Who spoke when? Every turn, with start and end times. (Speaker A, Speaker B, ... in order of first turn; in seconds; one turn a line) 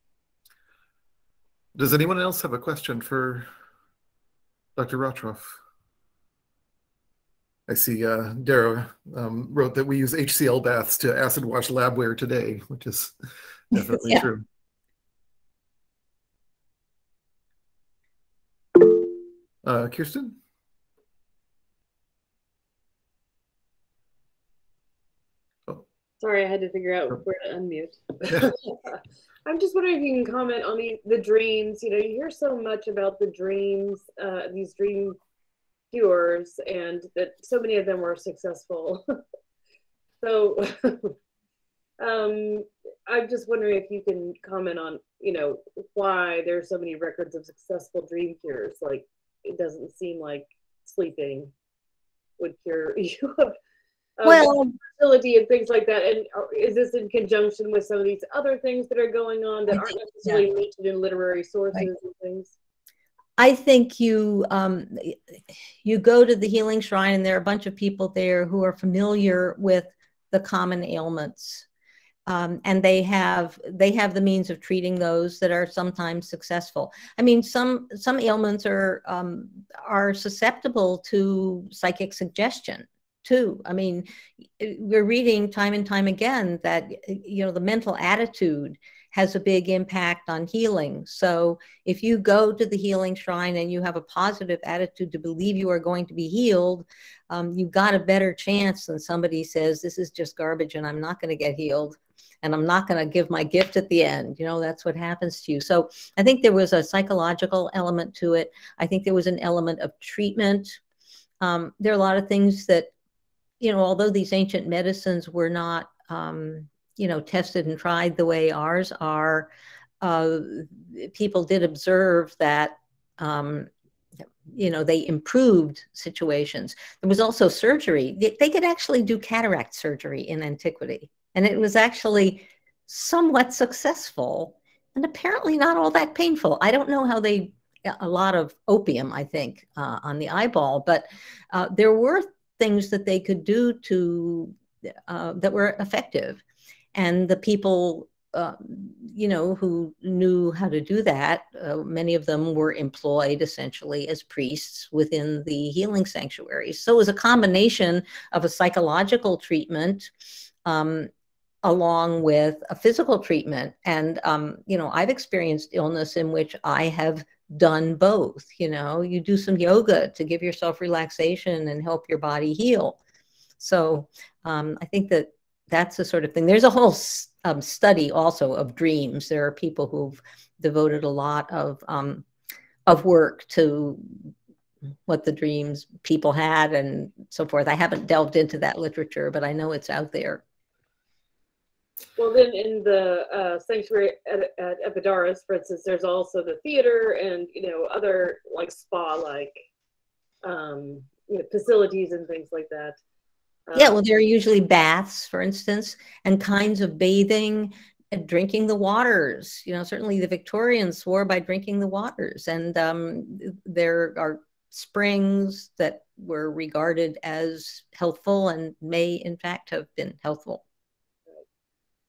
Speaker A: 1.8-3.5
Speaker A: 4.8-5.6
Speaker A: 7.7-13.2
Speaker A: 13.7-14.4
Speaker B: 13.8-14.3
Speaker A: 19.6-20.4
Speaker C: 26.2-35.2
Speaker A: 28.3-28.5
Speaker C: 35.9-39.0
Speaker C: 40.2-41.1
Speaker C: 42.0-51.5
Speaker C: 52.4-53.6
Speaker C: 54.2-62.5
Speaker B: 54.2-54.8
Speaker B: 59.7-60.4
Speaker B: 63.4-65.2
Speaker B: 65.8-71.7
Speaker B: 72.3-84.1
Speaker B: 84.6-110.8
Speaker B: 111.4-112.9
Speaker B: 113.6-119.5
Speaker B: 120.0-123.7
Speaker B: 124.5-144.5
Speaker B: 145.1-146.4
Speaker B: 146.9-160.1
Speaker B: 160.7-161.1
Speaker B: 161.6-173.0
Speaker B: 173.6-182.2
Speaker B: 182.9-184.3
Speaker B: 185.1-190.4
Speaker C: 192.2-199.6
Speaker C: 200.4-203.0
Speaker C: 203.7-204.0
Speaker B: 203.8-220.6